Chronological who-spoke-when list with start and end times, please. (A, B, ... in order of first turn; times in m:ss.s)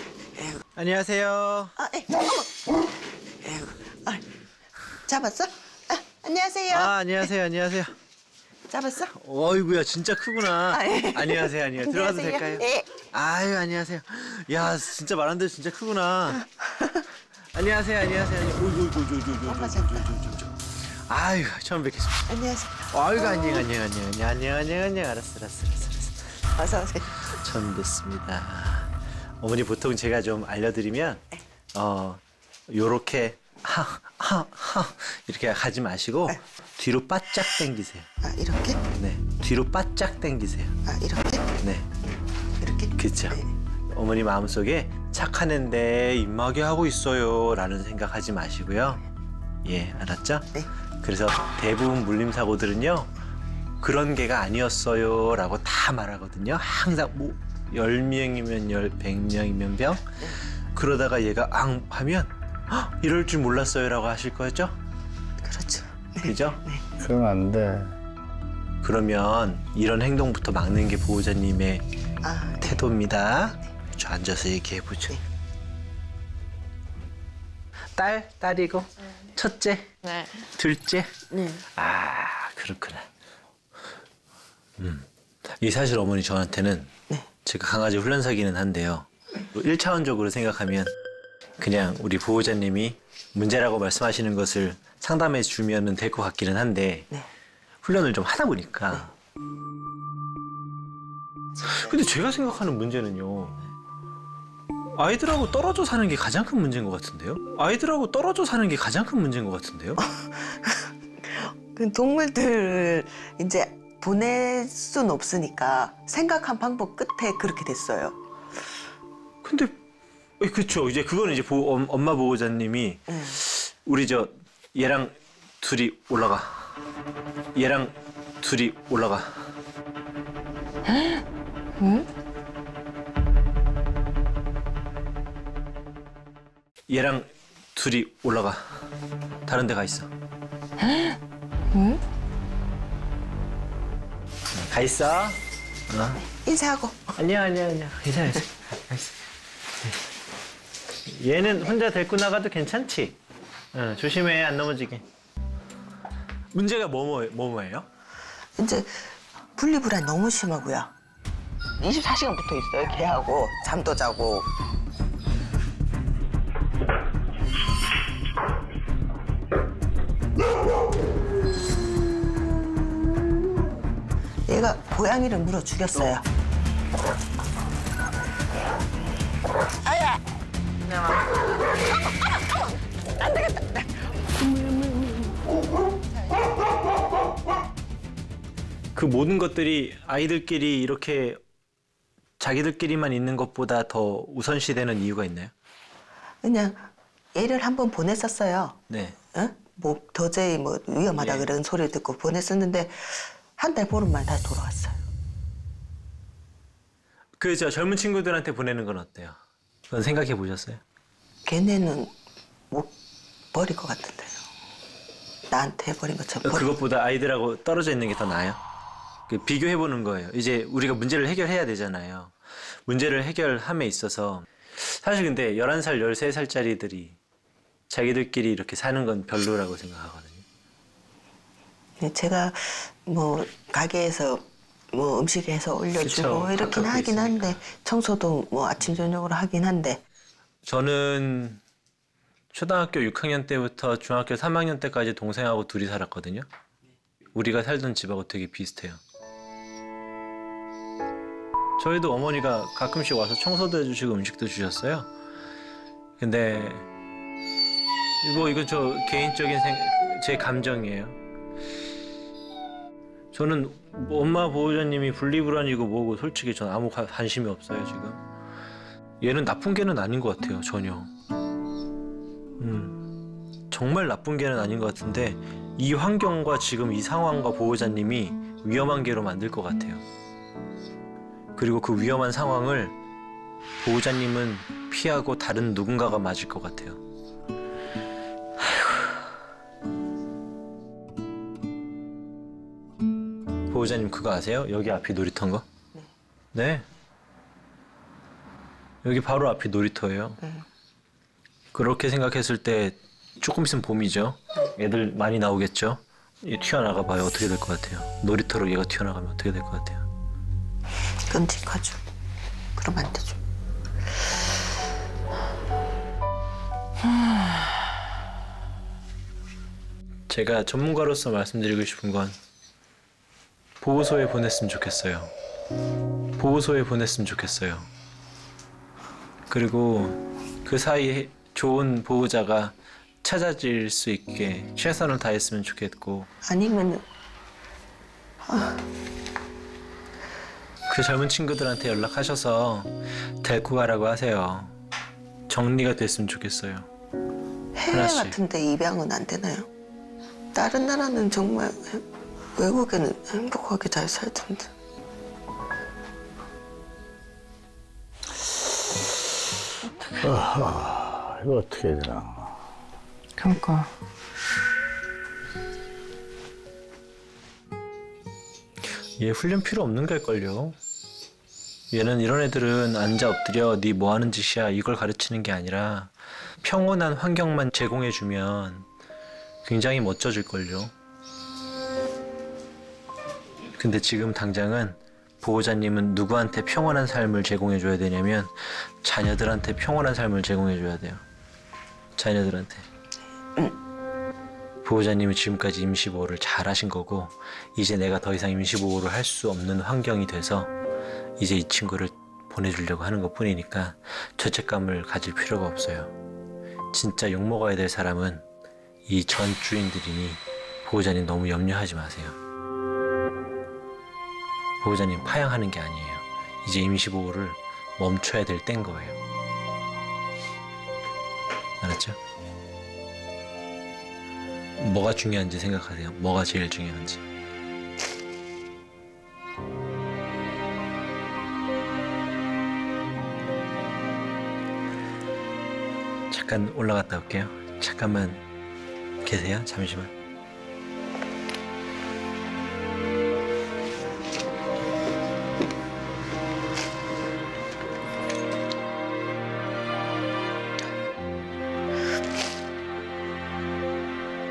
0:00.4-0:00.6 A
0:00.7-0:01.7 B
0:01.8-0:02.8 A
0:03.4-0:04.2 A
0:05.0-0:06.9 A
0:06.7-0:07.9 B
0:08.7-0:09.1 A
0:09.1-0:16.4 B
0:10.6-0:12.9 A
0:16.6-0:17.0 A
0:17.5-0:22.3 B
0:19.4-0:20.1 A
0:22.3-0:23.7 A
0:22.9-0:26.4 B
0:26.6-0:27.4 A
0:27.2-0:31.2 B
0:31.7-0:38.1 B
0:38.2-0:38.8 A
0:38.9-0:40.8 B
0:40.8-0:41.5 A
0:41.6-0:41.9 B
0:42.6-0:43.5 A
0:43.0-0:43.4 B
0:43.9-0:49.0 B
0:49.6-0:53.1 B
0:53.8-1:00.1 B
1:00.7-1:04.7 B
1:05.4-1:07.0 A
1:06.2-1:06.6 B
1:07.0-1:08.0 C
1:08.8-1:11.8 B
1:12.2-1:12.8 A
1:12.6-1:15.2 B
1:17.9-1:23.1 B
1:24.8-1:26.9 B
1:27.4-1:30.9 B
1:31.6-1:37.1 B
1:37.8-1:39.1 B
1:41.6-1:43.7 B
1:44.9-1:50.0 B
1:50.0-1:58.2 A
1:59.4-1:59.8 B
2:00.4-2:06.7 B
2:03.1-2:03.4 A
2:07.5-2:09.3 B
2:11.8-2:12.1 A
2:16.9-2:18.7 B
2:19.4-2:20.1 B
2:20.8-2:21.1 A
2:21.7-2:22.0 A
2:24.6-2:26.2 B
2:26.3-2:27.1 A
2:27.1-2:29.1 B
2:31.0-2:33.2 B
2:33.7-2:35.0 B
2:36.5-2:37.9 B
2:38.6-2:40.9 A
2:41.8-2:44.5 A
2:54.5-2:56.2 A
3:03.3-3:03.8 A
3:04.5-3:05.1 A
3:08.9-3:11.4 B
3:12.4-3:15.5 B
3:16.4-3:18.8 A
3:18.9-3:19.2 B
3:19.3-3:25.0 A
3:21.2-3:21.5 B
3:27.4-3:29.4 B
3:29.9-3:30.8 B
3:31.4-3:32.1 A
3:33.5-3:34.4 A
3:35.5-3:36.7 A
3:36.4-3:38.6 B
3:39.3-3:47.2 B
3:47.9-3:50.4 B
3:52.0-4:00.0 A
3:56.0-3:57.6 B
4:00.6-4:01.6 B
4:02.5-4:06.4 B
4:07.3-4:09.0 B
4:11.8-4:15.1 B
4:16.2-4:16.9 B
4:18.2-4:21.2 B
4:23.3-4:28.2 B
4:29.2-4:31.1 B
4:32.6-4:33.0 B
4:33.7-4:40.0 B
4:41.6-4:43.0 B
4:43.8-4:47.0 B
4:53.7-4:55.6 B
4:56.5-4:56.9 B
4:59.0-5:00.4 B
5:01.7-5:10.0 B
5:11.3-5:12.0 A
5:12.8-5:13.4 A
5:20.3-5:22.3 B
5:23.8-5:25.3 B
5:26.4-5:27.9 B
5:29.5-5:36.3 B
5:36.4-5:37.0 A
5:38.4-5:38.8 A
5:40.9-5:44.7 B
5:45.5-5:46.9 B
5:47.7-5:49.7 A
5:47.9-5:48.4 B
5:50.5-5:52.0 A
5:52.6-5:54.7 A
6:00.4-6:02.4 C
6:03.4-6:03.9 A
6:09.2-6:10.8 B
6:11.9-6:18.9 B
6:19.6-6:20.9 B
6:23.8-6:31.2 B
6:32.2-6:32.8 B
6:34.8-6:40.7 B
6:41.4-6:46.1 B
6:46.9-6:48.4 B
6:49.0-6:52.4 B
6:54.8-6:59.2 B
7:01.8-7:02.2 B
7:04.8-7:07.2 B
7:16.3-7:18.4 B
7:19.2-7:20.1 B